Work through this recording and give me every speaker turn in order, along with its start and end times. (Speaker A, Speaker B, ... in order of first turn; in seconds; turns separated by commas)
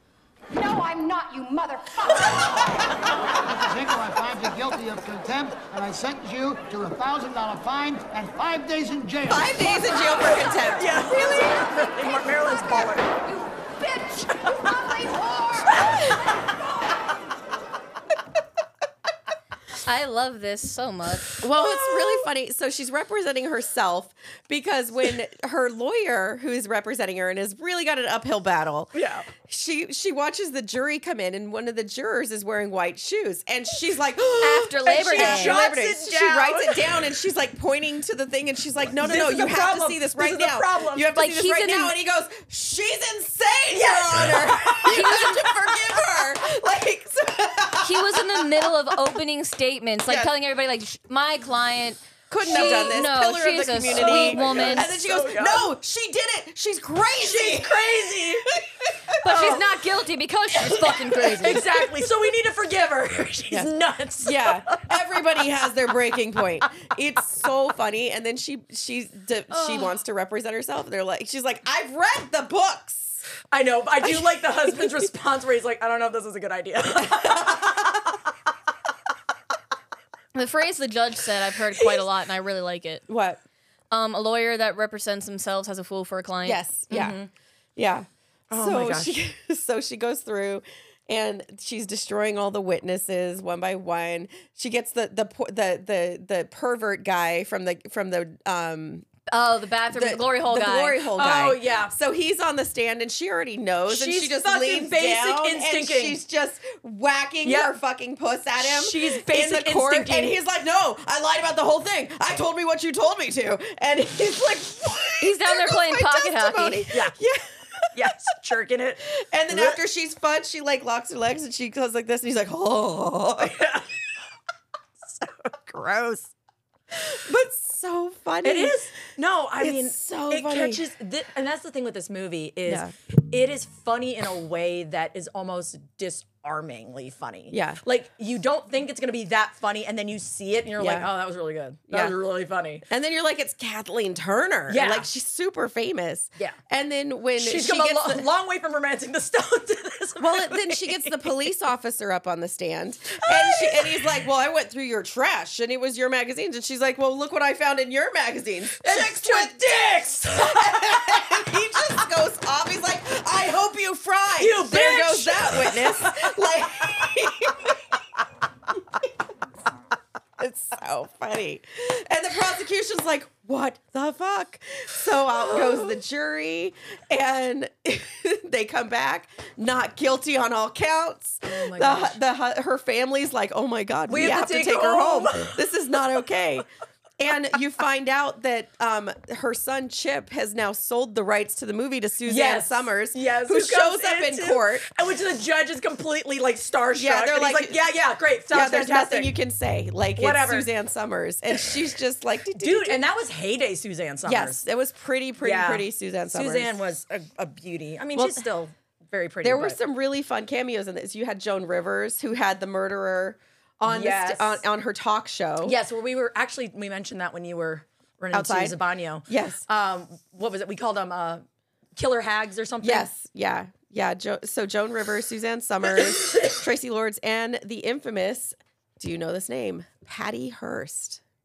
Speaker A: 0.6-2.7, Speaker B: 3.6-9.4, Speaker C: 9.2-11.2, Speaker D: 10.1-13.1, Speaker A: 11.3-11.8, Speaker A: 13.3-15.6, Speaker E: 19.9-21.4, Speaker C: 21.4-28.9, Speaker D: 21.6-22.2, Speaker D: 28.9-29.3, Speaker C: 29.4-48.7, Speaker E: 34.4-35.6, Speaker D: 34.8-36.9, Speaker D: 39.0-41.1, Speaker E: 41.2-41.9, Speaker D: 43.7-45.4, Speaker E: 44.9-45.4, Speaker E: 47.8-54.9, Speaker C: 50.1-50.3, Speaker C: 52.3-59.5, Speaker D: 52.5-53.1, Speaker D: 53.9-55.7, Speaker D: 57.2-58.5, Speaker E: 59.2-61.7, Speaker D: 59.2-59.6, Speaker D: 60.6-65.0, Speaker C: 63.5-73.2, Speaker D: 69.5-69.9, Speaker D: 73.5-77.5, Speaker C: 77.0-77.9, Speaker E: 80.3-83.0, Speaker C: 83.1-83.4, Speaker E: 83.9-86.6, Speaker C: 86.4-87.2, Speaker D: 86.9-87.3, Speaker C: 87.8-99.1, Speaker D: 88.5-89.2, Speaker E: 99.3-101.0, Speaker C: 99.9-117.9, Speaker D: 101.2-101.9, Speaker D: 103.9-106.2, Speaker D: 107.4-107.7, Speaker D: 108.6-110.4, Speaker E: 115.2-116.9, Speaker D: 116.9-117.2, Speaker D: 117.9-119.8, Speaker C: 119.1-123.7, Speaker D: 123.4-123.9, Speaker D: 125.1-126.3, Speaker C: 126.9-128.9, Speaker D: 128.4-142.8, Speaker C: 129.6-130.9, Speaker C: 132.7-132.9, Speaker C: 137.5-137.8, Speaker C: 140.8-141.1, Speaker C: 141.9-142.2, Speaker C: 142.9-148.3, Speaker D: 144.7-145.1, Speaker D: 147.4-151.3, Speaker C: 150.2-167.8, Speaker D: 153.2-154.0, Speaker D: 158.8-161.2, Speaker D: 164.4-166.4, Speaker C: 170.4-186.7, Speaker D: 175.5-175.9, Speaker D: 181.4-182.2, Speaker D: 184.1-185.6, Speaker C: 187.2-194.9, Speaker D: 192.2-199.4, Speaker C: 196.9-197.8, Speaker C: 198.5-203.0, Speaker D: 200.2-200.7, Speaker D: 202.6-204.7, Speaker C: 204.2-206.8, Speaker D: 205.4-209.8, Speaker C: 208.2-208.4, Speaker C: 209.4-215.8, Speaker D: 213.9-214.6, Speaker D: 215.6-221.4, Speaker C: 218.3-219.7, Speaker D: 222.0-223.1, Speaker C: 222.8-231.2, Speaker D: 225.9-226.6